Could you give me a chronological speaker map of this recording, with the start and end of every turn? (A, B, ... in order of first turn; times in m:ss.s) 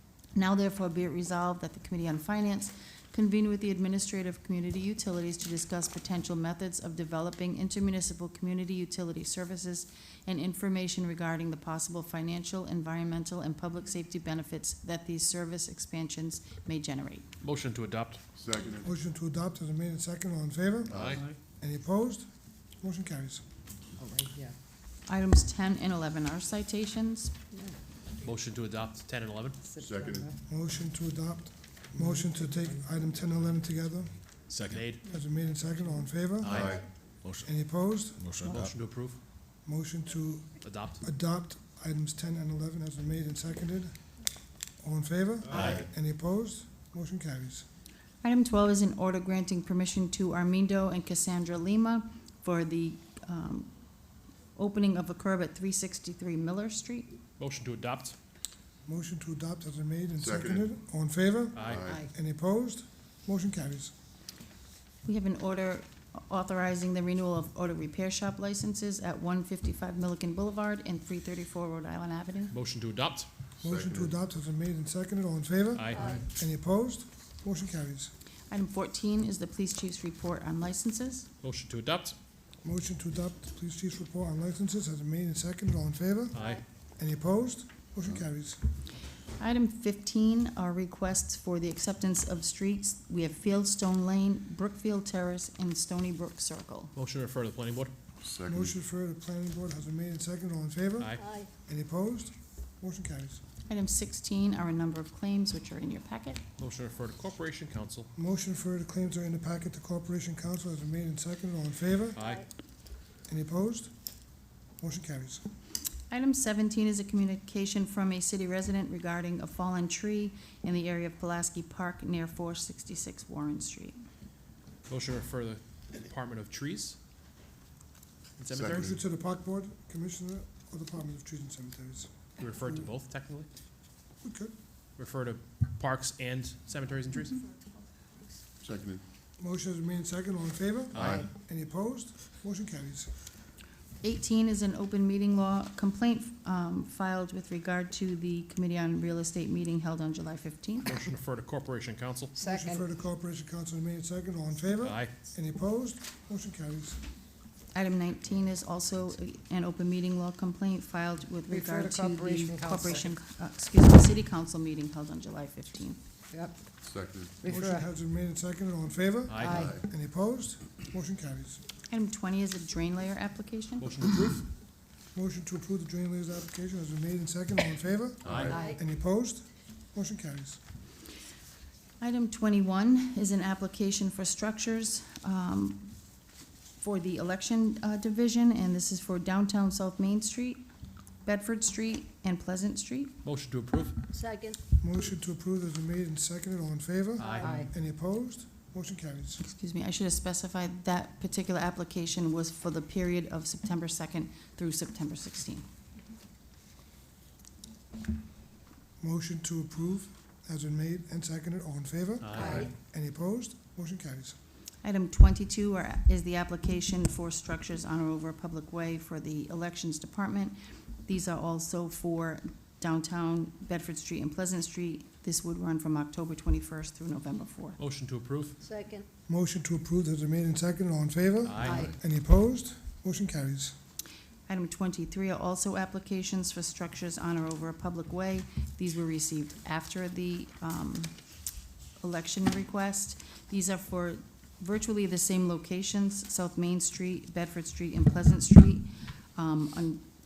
0:00.4-0:17.3 A
0:17.4-0:18.2 B
0:18.4-0:18.9 C
0:18.8-0:22.3 D
0:20.9-0:21.2 C
0:20.9-0:21.4 B
0:22.8-0:23.4 D
0:24.0-0:24.6 E
0:25.1-0:27.3 A
0:27.5-0:27.8 E
0:28.2-0:29.6 B
0:29.6-0:30.4 E
0:29.8-0:30.3 C
0:30.4-0:34.2 D
0:32.0-0:32.8 E
0:34.5-0:35.0 B
0:35.1-0:38.2 D
0:36.4-0:36.8 B
0:36.4-0:36.8 C
0:36.6-0:36.8 F
0:38.4-0:38.7 E
0:38.4-0:39.2 B
0:39.6-0:44.0 D
0:40.6-0:41.0 B
0:44.8-0:47.6 D
0:45.5-0:45.8 B
0:45.6-0:45.8 C
0:48.2-0:53.7 A
0:54.6-0:57.1 A
0:57.4-0:58.2 B
0:58.8-1:03.9 D
1:00.2-1:00.7 C
1:01.5-1:01.9 B
1:01.6-1:02.0 C
1:05.0-1:12.6 A
1:12.5-1:13.3 B
1:13.6-1:14.2 C
1:13.6-1:18.1 D
1:15.7-1:16.2 B
1:15.9-1:16.3 F
1:18.5-1:21.3 A
1:21.4-1:22.2 B
1:22.6-1:26.4 D
1:26.3-1:26.6 B
1:26.3-1:26.6 F
1:27.0-1:28.6 D
1:29.4-1:36.9 A
1:36.9-1:37.9 B
1:38.2-1:38.8 C
1:38.5-1:43.4 D
1:41.2-1:41.5 F
1:43.7-1:46.4 A
1:46.6-1:48.1 B
1:48.2-1:52.2 D
1:52.1-1:52.4 B
1:52.2-1:52.4 F
1:53.3-1:53.9 D
1:54.8-1:55.4 D
1:56.1-2:04.0 A
2:04.9-2:07.0 B
2:08.4-2:09.0 B
2:08.5-2:09.0 C
2:08.7-2:12.1 D
2:12.4-2:13.5 B
2:14.2-2:14.5 D
2:15.0-2:17.4 B
2:18.6-2:19.0 C
2:19.4-2:23.1 D
2:20.9-2:21.2 B
2:20.9-2:21.2 C
2:21.0-2:21.3 E
2:24.0-2:31.0 A
2:30.8-2:32.3 B
2:32.3-2:32.8 E
2:32.4-2:37.0 D
2:34.8-2:35.1 B
2:37.7-2:46.0 A
2:41.5-2:43.1 E
2:46.3-2:46.8 E
2:46.8-2:47.4 C
2:47.4-2:47.9 E
2:47.5-2:51.6 D
2:49.3-2:49.7 B
2:49.4-2:49.8 E
2:49.5-2:49.8 C
2:51.9-2:54.1 A
2:53.8-2:54.5 B
2:55.1-3:00.6 D
2:58.2-2:58.7 C
2:58.2-2:58.6 B
2:58.5-2:58.8 E
3:02.0-3:05.9 A
3:06.8-3:10.6 A
3:11.2-3:13.2 A
3:13.2-3:14.1 B
3:14.1-3:14.6 F
3:14.8-3:19.4 D
3:17.2-3:17.5 B
3:17.4-3:17.7 E
3:19.4-3:25.6 A
3:29.0-3:34.4 D
3:32.2-3:32.6 B
3:32.3-3:32.7 E
3:32.3-3:32.7 C
3:34.8-3:47.8 A
3:47.8-3:48.6 B
3:48.6-3:49.0 F
3:49.3-3:53.7 D
3:51.4-3:51.9 B
3:51.6-3:51.9 E
3:54.5-4:01.1 A
4:02.0-4:10.0 A